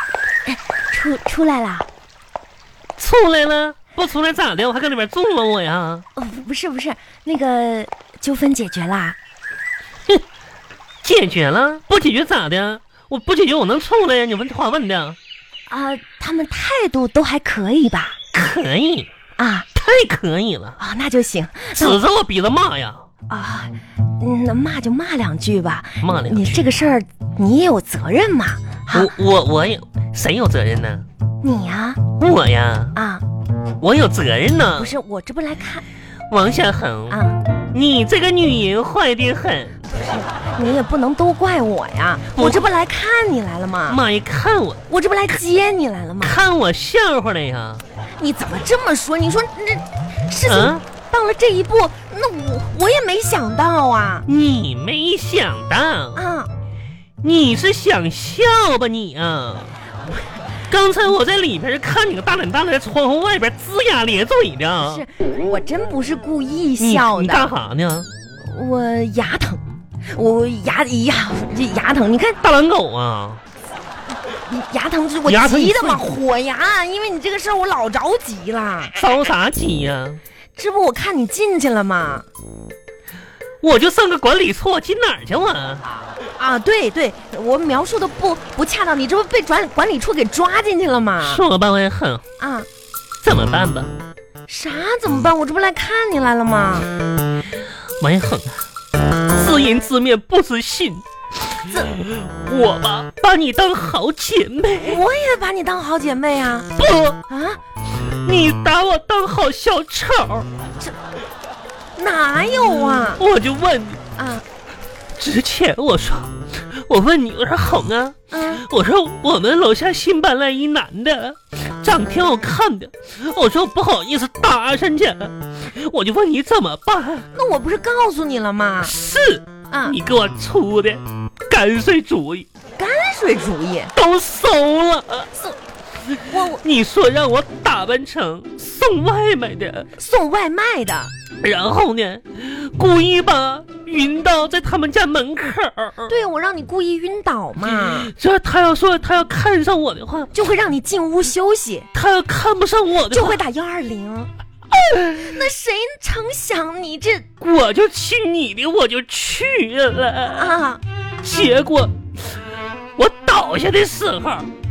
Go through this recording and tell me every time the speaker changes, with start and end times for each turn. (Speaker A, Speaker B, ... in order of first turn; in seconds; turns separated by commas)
Speaker A: 0.5-1.9, Speaker B: 3.0-6.0, Speaker A: 6.2-9.2, Speaker B: 11.0-15.2, Speaker A: 15.7-18.2, Speaker B: 18.3-19.1, Speaker A: 19.4-19.7, Speaker B: 19.7-20.8, Speaker A: 20.8-22.0, Speaker B: 21.7-23.0, Speaker A: 23.3-29.1, Speaker B: 26.0-26.7, Speaker B: 28.9-31.1, Speaker A: 31.4-32.0, Speaker B: 32.2-32.9, Speaker A: 32.9-33.2, Speaker B: 33.8-35.0, Speaker A: 34.8-35.8, Speaker B: 36.3-37.2, Speaker A: 37.1-37.4, Speaker B: 37.7-39.8, Speaker A: 39.8-44.0, Speaker B: 42.3-42.7, Speaker B: 43.9-44.8, Speaker A: 44.9-46.4, Speaker B: 46.2-47.8, Speaker A: 48.2-54.2, Speaker B: 50.4-50.8, Speaker B: 54.2-56.2, Speaker A: 56.1-56.5, Speaker B: 57.2-59.7, Speaker B: 60.7-65.0, Speaker A: 64.8-67.5, Speaker B: 66.8-68.1, Speaker A: 68.4-72.4, Speaker B: 72.4-73.4, Speaker A: 74.3-78.9, Speaker B: 75.2-76.1, Speaker B: 79.0-80.2, Speaker A: 80.5-82.2, Speaker B: 83.6-85.8, Speaker A: 86.4-91.4, Speaker B: 91.2-92.2, Speaker A: 92.4-92.7, Speaker B: 93.2-93.9, Speaker A: 94.5-96.9, Speaker B: 98.0-98.6, Speaker B: 99.3-101.0, Speaker B: 101.9-105.0, Speaker A: 104.8-106.7, Speaker B: 106.8-107.2, Speaker A: 107.3-107.6, Speaker B: 108.0-110.5, Speaker A: 112.0-113.2, Speaker B: 113.1-114.0, Speaker A: 114.2-114.4, Speaker B: 115.2-127.3, Speaker A: 118.3-118.6, Speaker A: 127.3-128.9, Speaker B: 128.8-132.4, Speaker A: 129.7-130.0, Speaker A: 132.8-133.9, Speaker B: 133.9-135.3, Speaker B: 136.1-139.9, Speaker A: 136.3-136.6, Speaker A: 140.0-141.1, Speaker B: 141.4-146.1, Speaker A: 146.1-148.1, Speaker B: 147.7-150.3, Speaker A: 150.3-151.9, Speaker B: 151.9-153.4, Speaker A: 153.1-154.3, Speaker A: 154.9-157.3, Speaker B: 157.4-160.6, Speaker A: 160.3-160.8, Speaker B: 161.2-161.9, Speaker B: 163.0-164.5